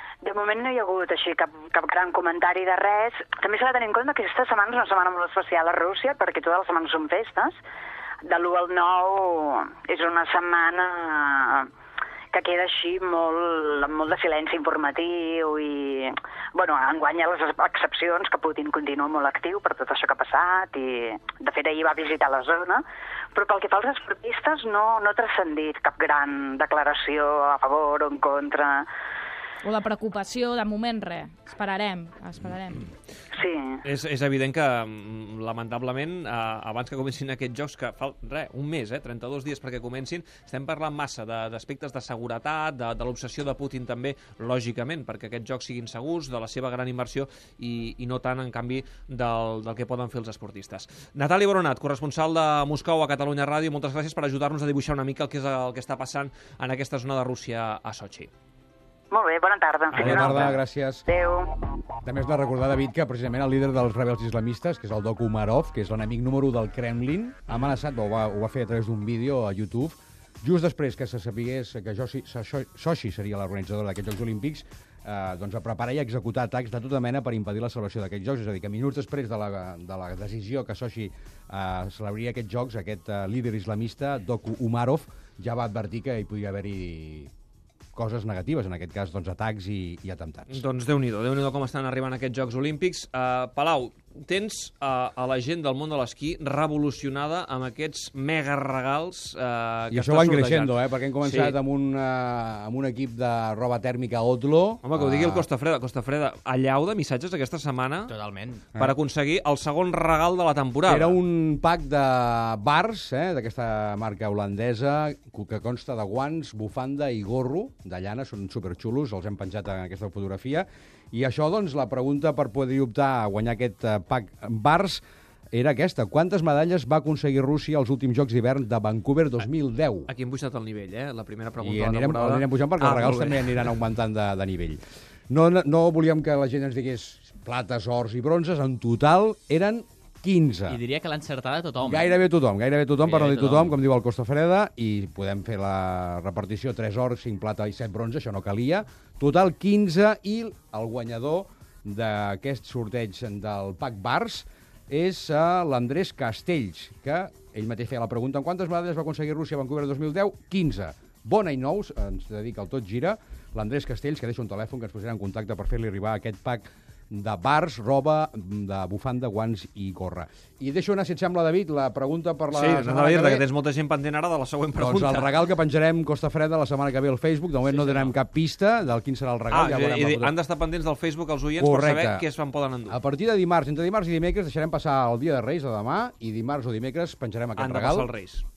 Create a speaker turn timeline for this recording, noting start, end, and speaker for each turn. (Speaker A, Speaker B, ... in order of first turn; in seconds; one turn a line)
Speaker A: 0.2-7.6
Speaker A: 8.2-11.7
Speaker A: 12.3-22.8
Speaker A: 23.3-28.9
Speaker B: 29.6-32.9
Speaker A: 33.3-33.8
Speaker C: 33.8-58.3
Speaker A: 59.1-61.5
Speaker C: 59.9-60.6
Speaker D: 60.0-61.0
Speaker D: 62.0-87.3
Speaker D: 87.9-90.6
Speaker C: 90.5-101.6
Speaker D: 99.9-105.4
Speaker C: 104.8-108.1
Speaker E: 108.1-108.7
Speaker C: 108.8-111.2
Speaker D: 110.8-130.1
Speaker C: 130.1-133.8
Speaker D: 131.6-134.8
Speaker D: 135.3-140.8
Speaker E: 140.7-142.1
Speaker D: 141.8-173.4
Speaker E: 143.0-143.7
Speaker C: 172.5-175.4
Speaker D: 174.8-180.4
Speaker C: 179.5-183.0
Speaker D: 181.6-182.2
Speaker D: 182.9-188.1
Speaker C: 187.6-188.4